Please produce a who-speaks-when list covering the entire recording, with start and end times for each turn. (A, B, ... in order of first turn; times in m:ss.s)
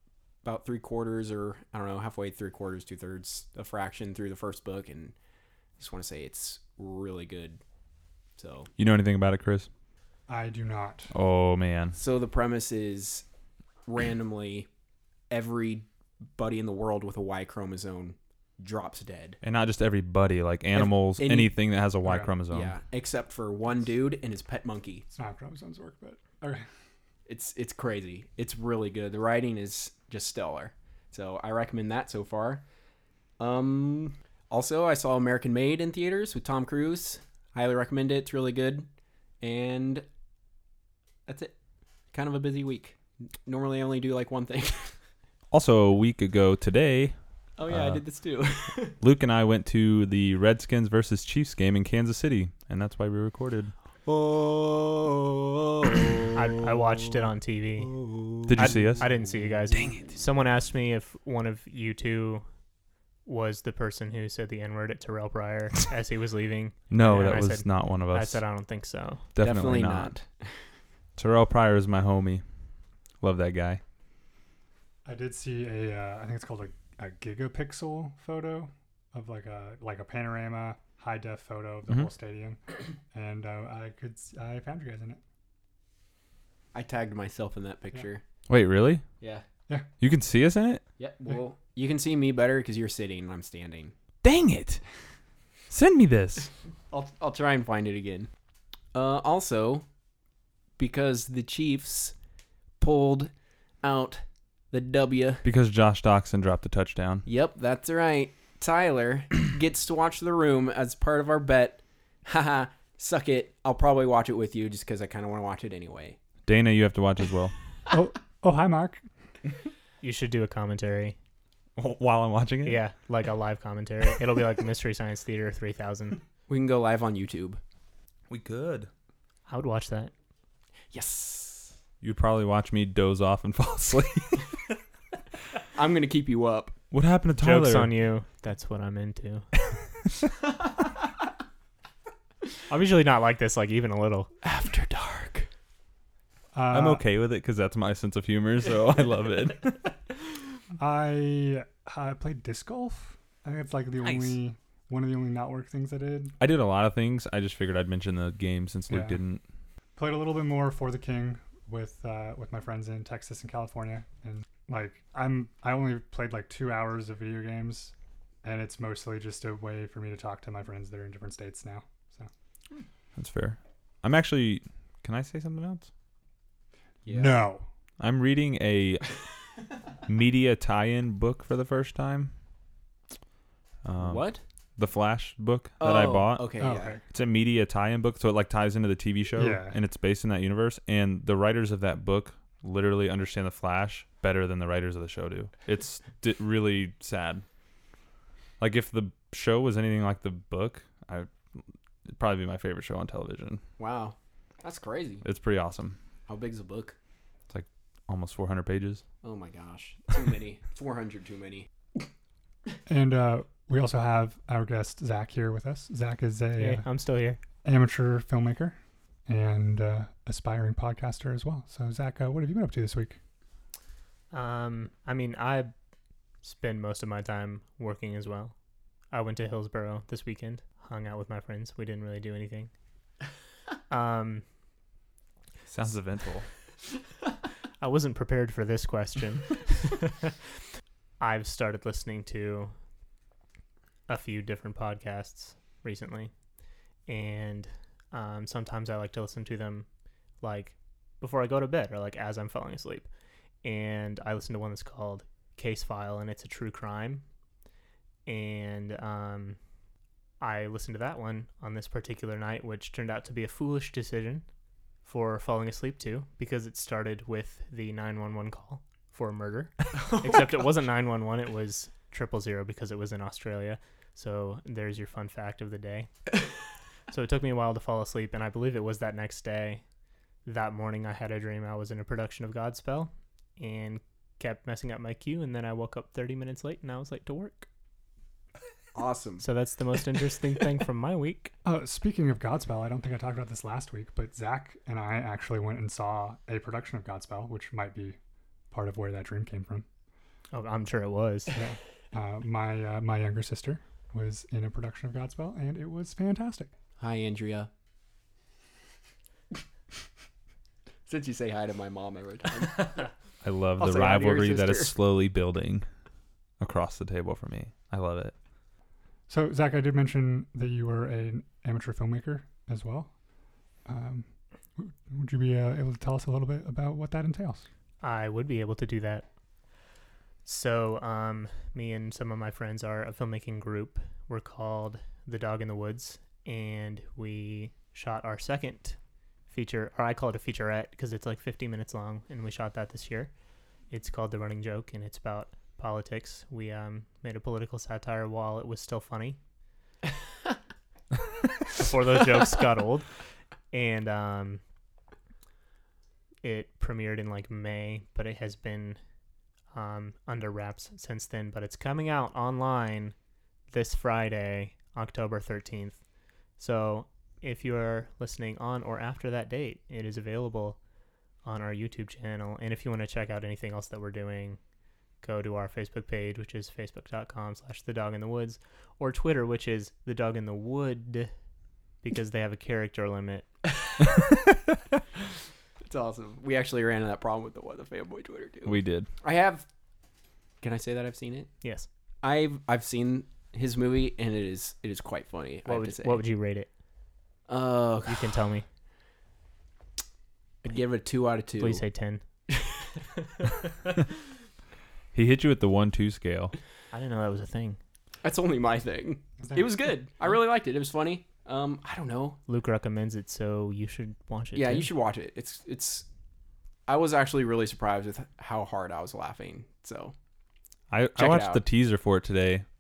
0:00.4-0:05.2 A
0:05.8-0:07.6 A
0:08.4-0:08.7 A
0:08.8-0:09.7 B
0:10.3-0:11.1 C
0:11.1-0:12.0 B
0:12.0-0:13.3 A
0:13.9-0:14.7 A
0:15.3-0:19.4 A
0:19.4-0:22.7 B
0:20.8-0:21.5 A
0:22.0-0:22.3 C
0:22.5-0:25.1 A
0:25.1-0:26.6 C
0:27.3-0:32.6 A
0:33.4-0:38.9 A
0:39.4-0:40.1 A
0:41.3-0:41.5 A
0:42.1-0:44.9 A
0:45.5-0:47.2 B
0:47.6-0:49.0 A
0:47.7-0:48.0 B
0:49.0-0:53.7 B
0:54.1-0:56.9 A
0:56.3-0:58.0 D
0:57.8-0:59.3 A
0:58.5-0:59.0 B
0:58.5-1:02.4 D
1:03.3-1:09.2 D
1:06.9-1:08.4 B
1:09.4-1:10.2 B
1:09.4-1:10.6 A
1:11.2-1:12.4 B
1:13.2-1:13.8 B
1:15.0-1:25.2 C
1:26.7-1:28.2 A
1:28.5-1:29.0 B
1:29.2-1:29.5 A
1:30.0-1:30.8 B
1:31.0-1:33.9 A
1:34.2-1:34.8 B
1:35.7-1:36.5 B
1:36.9-1:38.3 A
1:38.9-1:39.8 A
1:40.8-1:42.2 A
1:42.8-1:43.3 A
1:43.8-1:45.4 A
1:45.4-1:47.3 B
1:47.3-1:56.2 A
1:56.4-1:57.6 B
1:57.9-1:59.0 C
2:00.0-2:01.2 D
2:01.8-2:02.8 B
2:02.6-2:06.2 D
2:06.5-2:07.6 A
2:08.3-2:08.9 B
2:09.5-2:10.1 D
2:10.9-2:11.7 A
2:12.0-2:14.5 B
2:15.8-2:16.8 A
2:16.9-2:17.9 B
2:17.4-2:19.5 D
2:22.7-2:24.3 D
2:24.4-2:25.5 A
2:26.5-2:27.0 C
2:26.7-2:29.9 B
2:30.8-2:36.4 C
2:36.4-2:39.4 B
2:38.9-2:39.2 C
2:40.0-2:52.3 C
2:53.2-2:55.9 B
2:57.0-2:57.4 A
2:57.1-2:57.7 C
2:58.0-2:59.2 B
3:00.0-3:02.3 B
3:03.8-3:04.3 B
3:04.0-3:04.4 A
3:04.8-3:17.4 B
3:05.8-3:07.0 A
3:06.6-3:07.0 C
3:09.4-3:09.8 C
3:18.6-3:21.3 B
3:22.1-3:23.6 B
3:23.8-3:25.2 A
3:25.2-3:26.0 B
3:26.3-3:27.0 A
3:27.5-3:29.0 B
3:29.2-3:31.7 A
3:32.9-3:36.9 C
3:36.6-3:37.4 D
3:37.6-3:43.2 C
3:44.3-3:45.7 D
3:46.4-3:48.6 D
3:49.1-3:52.7 D
3:53.9-3:54.4 D
3:55.7-3:56.5 B
3:57.8-4:00.3 D
4:01.2-4:02.7 D
4:04.1-4:06.3 D
4:07.1-4:09.9 D
4:10.4-4:13.1 D
4:13.6-4:17.2 D
4:18.3-4:19.6 D
4:20.4-4:24.4 D
4:25.0-4:36.1 D
4:37.1-4:39.8 D
4:40.4-4:47.7 D
4:48.9-4:49.4 A
4:49.4-4:51.5 D
4:51.6-4:58.2 C
4:58.7-4:59.8 C
5:00.5-5:01.6 D
5:01.6-5:06.7 C
5:07.0-5:07.7 A
5:11.1-5:13.1 A
5:13.4-5:15.9 B
5:13.8-5:14.9 A
5:16.6-5:18.3 B
5:19.3-5:23.1 C
5:23.9-5:27.7 C
5:28.0-5:29.3 D
5:30.4-5:39.0 D
5:39.5-5:43.3 D
5:43.9-5:49.4 D
5:51.7-5:53.1 D
5:53.7-5:54.6 D
5:56.4-5:59.0 D
5:59.7-6:03.2 D
6:03.7-6:06.0 D
6:06.6-6:10.8 D
6:11.4-6:14.6 D
6:15.2-6:21.3 D
6:22.0-6:23.5 D
6:25.8-6:29.7 A
6:28.7-6:29.1 B
6:30.6-6:31.5 A
6:32.2-6:36.2 A
6:35.7-6:36.7 D
6:37.5-6:38.4 A
6:38.1-6:38.7 D
6:40.6-6:41.8 A
6:41.6-6:42.2 D
6:45.1-6:46.6 B
6:46.9-6:47.8 D
6:48.2-6:52.4 A
6:49.4-6:49.7 C
6:52.5-6:54.9 D
6:54.6-6:56.1 A
6:56.9-7:00.1 A
7:00.9-7:02.6 B
7:01.2-7:01.6 A